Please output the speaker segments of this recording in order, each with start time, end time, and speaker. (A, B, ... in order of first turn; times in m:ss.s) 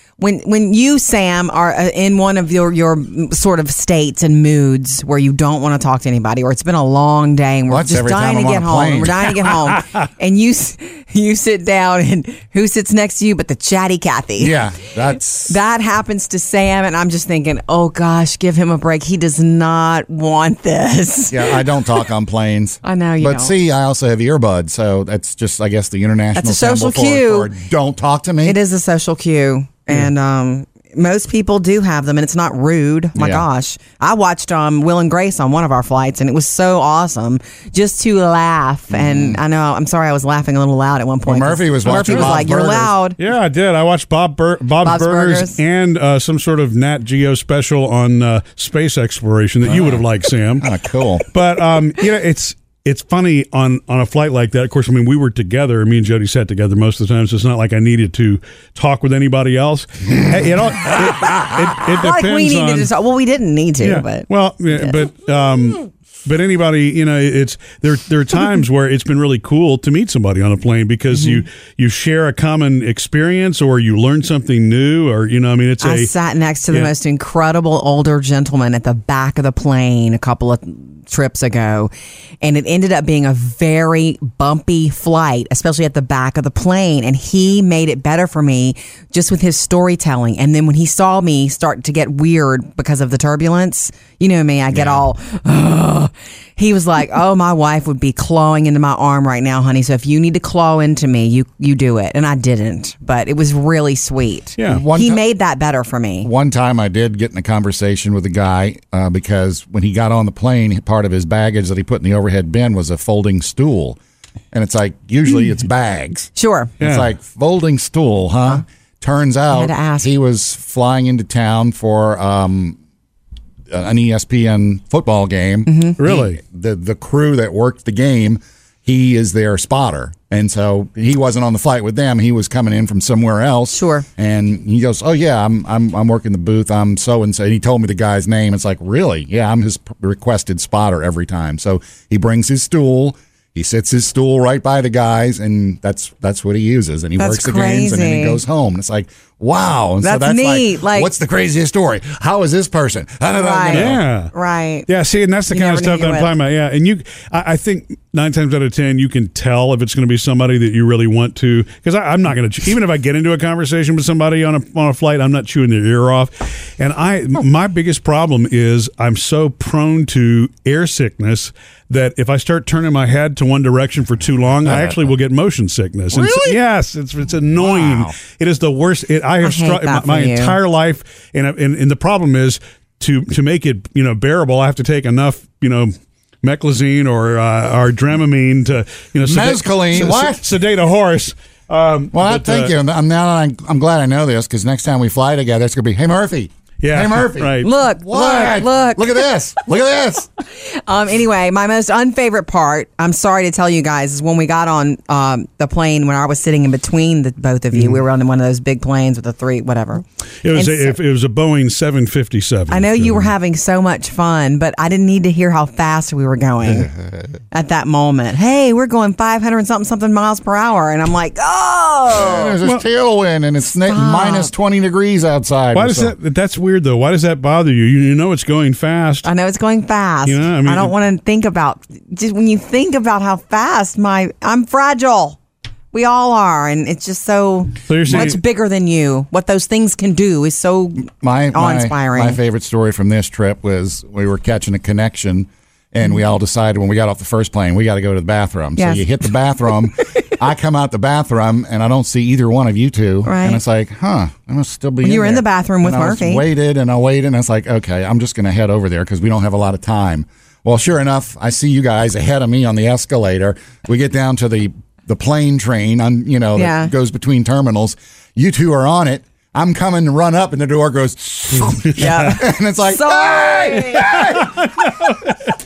0:00.2-0:14.6 A
0:07.7-0:09.3 B
0:14.4-0:15.6 B
0:15.4-0:22.0 A
0:21.3-0:28.6 B
0:22.8-0:23.5 A
0:26.3-0:27.5 A
0:28.4-0:43.2 A
0:33.1-0:33.4 B
0:38.9-0:39.4 B
0:41.2-0:42.9 B
0:41.9-0:42.4 C
0:43.2-0:50.7 C
0:44.8-0:45.6 A
0:49.6-0:50.0 B
0:50.6-0:51.2 B
0:51.3-1:02.9 C
1:01.8-1:05.0 A
1:03.8-1:16.1 C
1:11.1-1:11.4 A
1:15.8-1:46.3 A
1:44.6-1:44.8 C
1:44.6-1:45.2 B
1:46.2-1:54.0 B
1:54.5-2:02.8 B
1:56.4-1:56.7 A
1:56.8-1:57.1 C
1:59.5-2:00.1 A
2:03.7-2:34.0 B
2:05.6-2:06.0 A
2:06.0-2:06.4 C
2:13.7-2:14.0 A
2:27.2-2:28.4 A
2:30.0-2:31.1 A
2:33.3-2:34.9 A
2:33.7-2:34.3 C
2:34.9-3:12.7 C
2:35.5-2:36.3 A
2:54.6-2:55.0 B
2:56.1-2:56.6 B
2:57.6-2:58.2 B
2:59.4-3:00.6 A
3:09.2-3:10.4 B
3:12.1-3:20.3 B
3:16.8-3:17.7 C
3:17.6-3:19.3 A
3:20.4-3:31.0 A
3:30.4-3:33.3 C
3:32.7-3:36.9 A
3:36.6-3:37.2 B
3:37.5-3:42.6 A
3:42.1-3:46.1 B
3:43.8-3:44.5 A
3:45.7-3:49.3 C
3:49.2-3:55.4 A
3:50.2-3:50.9 C
3:55.9-4:02.4 A
3:57.9-3:58.4 C
4:01.1-4:34.7 B
4:08.8-4:09.1 A
4:13.2-4:13.6 A
4:15.0-4:16.4 A
4:26.6-4:26.9 A
4:31.6-4:32.4 C
4:32.0-4:34.2 A
4:34.0-4:35.5 C